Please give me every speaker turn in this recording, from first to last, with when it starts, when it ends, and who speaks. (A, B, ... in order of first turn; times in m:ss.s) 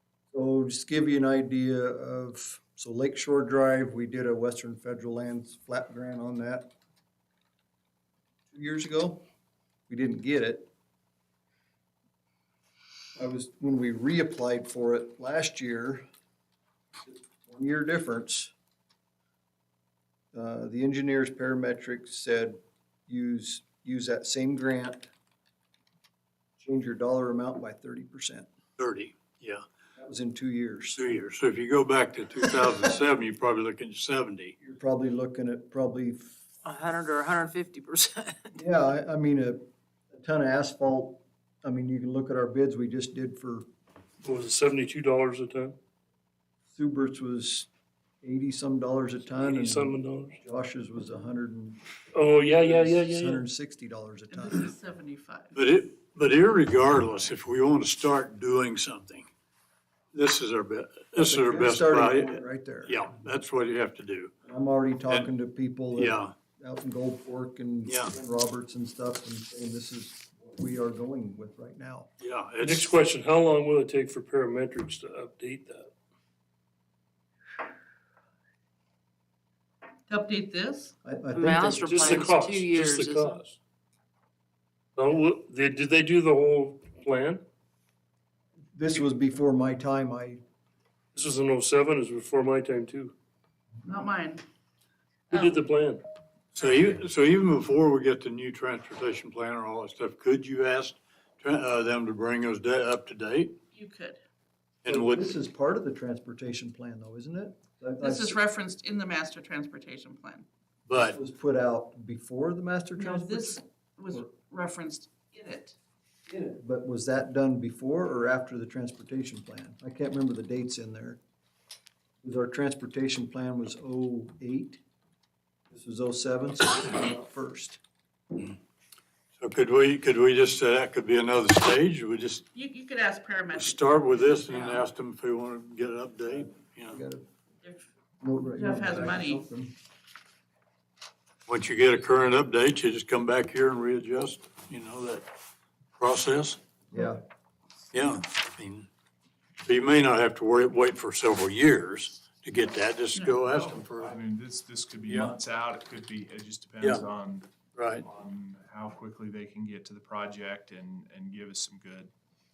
0:00.3-0:06.7 A
0:08.5-0:09.2 A
0:09.9-0:10.7 A
0:13.2-0:16.1 A
0:17.0-0:18.5 A
0:20.3-0:25.1 A
0:26.6-0:28.5 A
0:28.8-0:29.6 B
0:30.0-0:31.0 A
0:31.0-0:34.5 B
0:34.6-0:36.4 A
0:36.6-0:38.5 C
0:38.6-0:43.7 A
0:44.2-0:45.8 D
0:46.7-0:47.7 A
0:48.2-0:51.8 A
0:49.3-0:50.4 D
0:52.1-0:53.4 D
0:52.5-0:54.7 A
0:54.3-0:55.5 E
0:55.5-0:59.3 B
1:00.1-1:04.3 B
1:01.2-1:03.0 A
1:04.4-1:12.1 A
1:05.9-1:06.3 B
1:07.9-1:08.1 B
1:12.2-1:12.9 B
1:12.6-1:15.9 D
1:20.1-1:21.0 E
1:21.0-1:22.3 A
1:21.3-1:23.4 C
1:21.8-1:23.6 D
1:25.0-1:27.4 D
1:28.8-1:30.4 A
1:31.2-1:33.1 D
1:33.8-1:34.4 E
1:35.3-1:36.0 D
1:36.5-1:43.6 B
1:43.7-1:44.2 E
1:44.8-1:45.4 B
1:44.9-1:48.4 A
1:48.0-1:50.5 E
1:50.9-1:51.2 B
1:51.0-1:53.6 A
1:53.0-1:55.8 E
1:56.3-2:01.2 A
2:02.2-2:04.8 A
2:05.7-2:07.8 A
2:09.4-2:12.4 B
2:12.5-2:14.8 E
2:13.5-2:17.0 B
2:16.9-2:17.3 A
2:17.6-2:19.5 E
2:18.2-2:19.8 A
2:21.5-2:25.3 B
2:26.0-2:26.6 B
2:26.9-2:27.2 A
2:27.9-2:28.9 B
2:29.6-2:34.2 B
2:33.5-2:42.1 F
2:35.1-2:35.4 B
2:36.8-2:37.1 B
2:37.7-2:38.0 B